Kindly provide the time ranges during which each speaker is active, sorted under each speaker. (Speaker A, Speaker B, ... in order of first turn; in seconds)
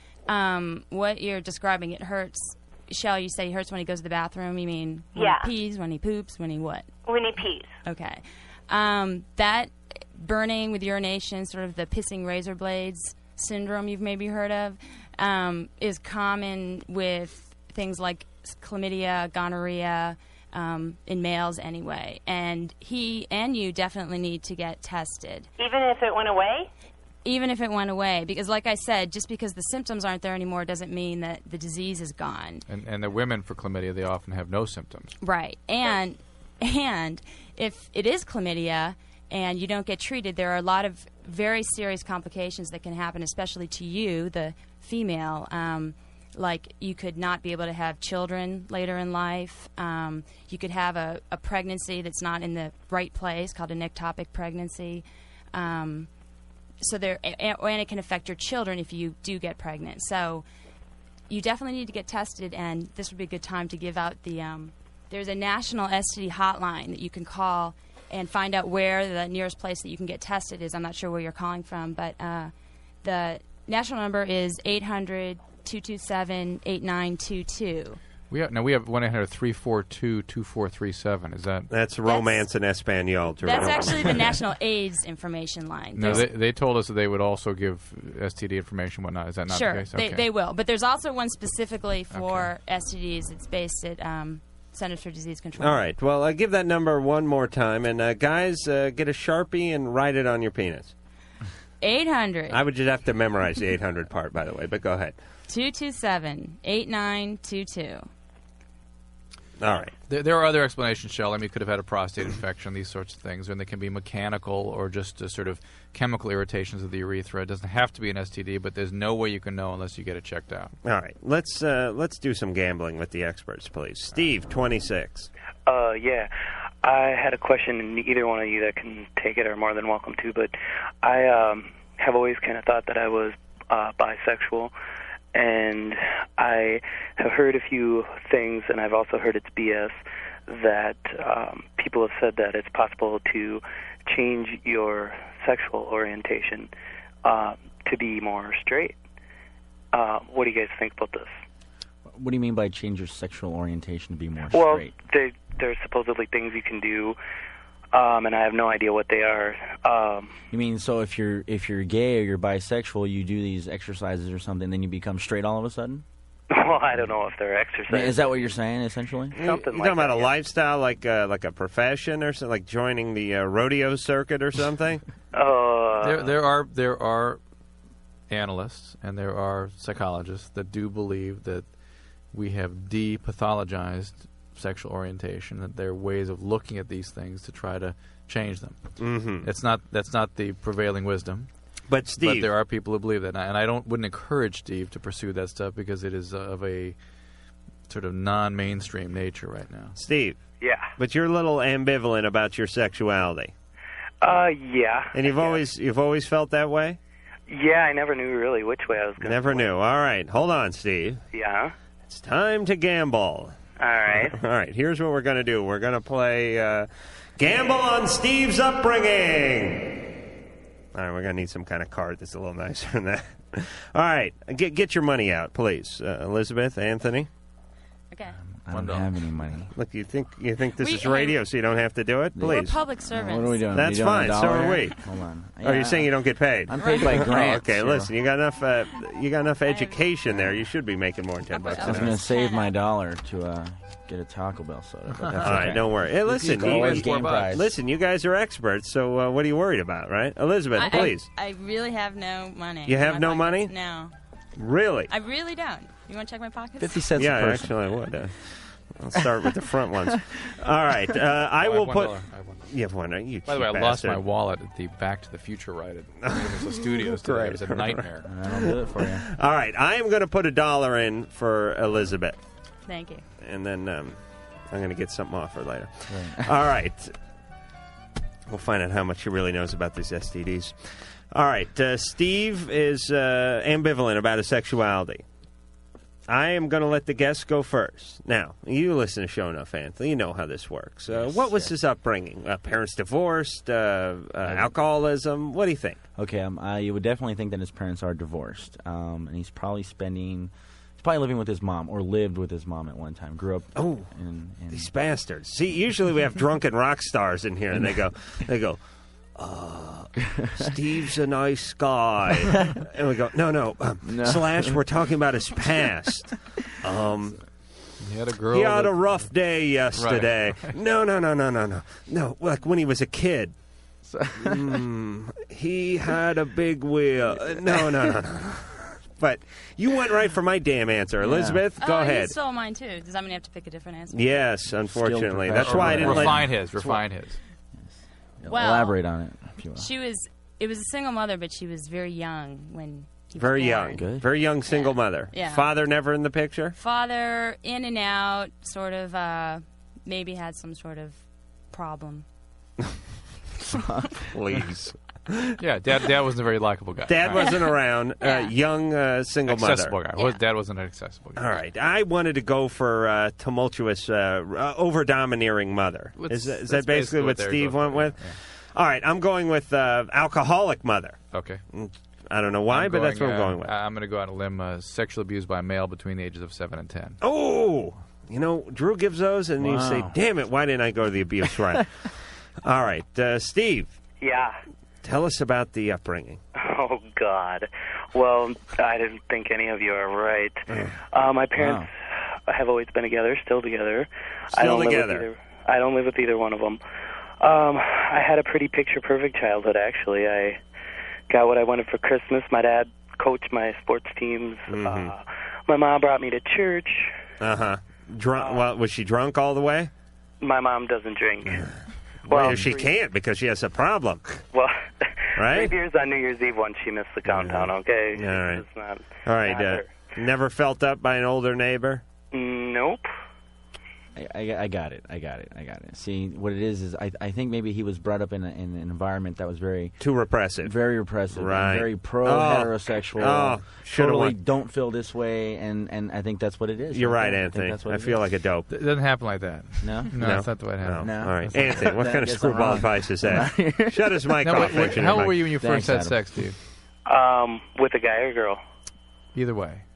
Speaker A: 0.3-7.0, 7.8-25.5, 27.2-32.6, 35.2-56.1, 56.8-60.4, 61.3-72.5, 73.0-78.0, 82.0-82.5, 83.4-86.3, 89.5-95.8, 101.8-102.6, 105.5-108.1, 228.1-228.4, 230.8-231.4, 232.4-233.7, 236.8-237.0, 239.7-240.0, 241.5-242.7, 250.8-254.1, 255.1-257.0, 272.9-273.2, 331.8-334.3, 338.5-338.9, 339.8-344.0, 344.7-345.7, 346.8-351.2, 351.7-352.2, 358.2-358.5
Speaker B: 5.1-5.5, 7.0-7.8, 25.6-26.7
Speaker C: 32.7-35.1, 78.3-81.7, 86.0-90.3, 92.1-92.5, 110.1-120.7, 176.0-177.4, 178.3-181.7, 182.3-188.8, 189.4-191.5, 192.2-197.0, 197.9-199.9, 228.7-229.2, 245.1-247.6, 261.6-262.6, 263.5-268.3, 318.0-319.3, 319.9-320.7, 335.5-337.4, 355.6-357.5, 359.5-361.5, 366.2-368.4, 371.3-371.6, 372.7-377.2, 438.7-442.8, 444.4-446.6, 449.4-449.8
Speaker D: 81.7-84.2, 95.6-100.9, 102.5-105.2, 109.6-109.9, 120.8-125.3, 169.4-175.0, 189.0-189.5, 191.9-192.5, 200.0-200.4, 201.0-203.5, 205.1-207.0, 209.2-211.2, 212.1-213.6, 214.1-220.0, 220.9-227.3, 229.8-232.8, 233.7-235.0, 235.6-242.2, 245.4-251.3, 252.9-253.7, 254.6-255.1, 257.2-264.2, 266.2-268.1, 269.2-272.4, 273.4-274.2, 274.7-277.1, 278.5-285.2, 286.3-296.0, 303.8-304.1, 304.7-308.8, 309.4-316.3, 316.8-317.4, 318.5-323.5, 324.4-332.3, 334.1-337.0, 343.4-346.8, 354.3-355.6, 357.1-359.9, 361.4-371.2, 371.7-373.7, 377.2-381.9, 382.6-383.9, 385.0-386.4, 390.7-391.0, 394.5-395.2, 404.7-405.1, 407.4-409.9, 412.3-414.4, 415.4-415.7, 417.3-418.6, 419.2-422.0, 430.0-430.8, 431.3-434.4, 436.9-438.7, 440.2-445.4
Speaker E: 125.7-126.3, 126.8-134.7, 135.3-146.7, 147.2-149.0, 149.9-151.4, 154.5-157.2, 157.9-160.4, 166.5-168.5, 169.4-170.3, 175.3-176.3, 200.6-200.9, 204.2-205.6, 207.5-209.7, 211.3-211.7, 213.8-214.4, 384.2-384.6, 386.6-391.9, 392.5-396.8, 397.4-400.6, 401.3-407.2, 408.4-408.7, 410.4-411.7, 412.3-412.8, 414.5-419.9, 422.3-423.1, 447.1-448.6
Speaker F: 152.1-155.0, 160.5-166.0, 167.9-169.4, 228.4-229.7, 232.3-238.1, 240.3-240.6, 241.8-247.7, 256.8-258.1, 259.2-260.2, 268.2-269.3, 276.1-276.6, 291.1-291.8, 294.4-294.7, 296.2-304.9, 310.4-311.0, 314.0-314.8, 315.6-315.9, 324.1-324.9, 327.6-328.2, 331.2-331.7, 334.8-336.5, 338.4-339.9, 343.9-344.3, 353.7-354.1, 379.6-380.2, 381.4-381.8, 391.6-391.9, 424.1-430.0, 430.6-438.3, 439.8-440.4, 441.0-446.5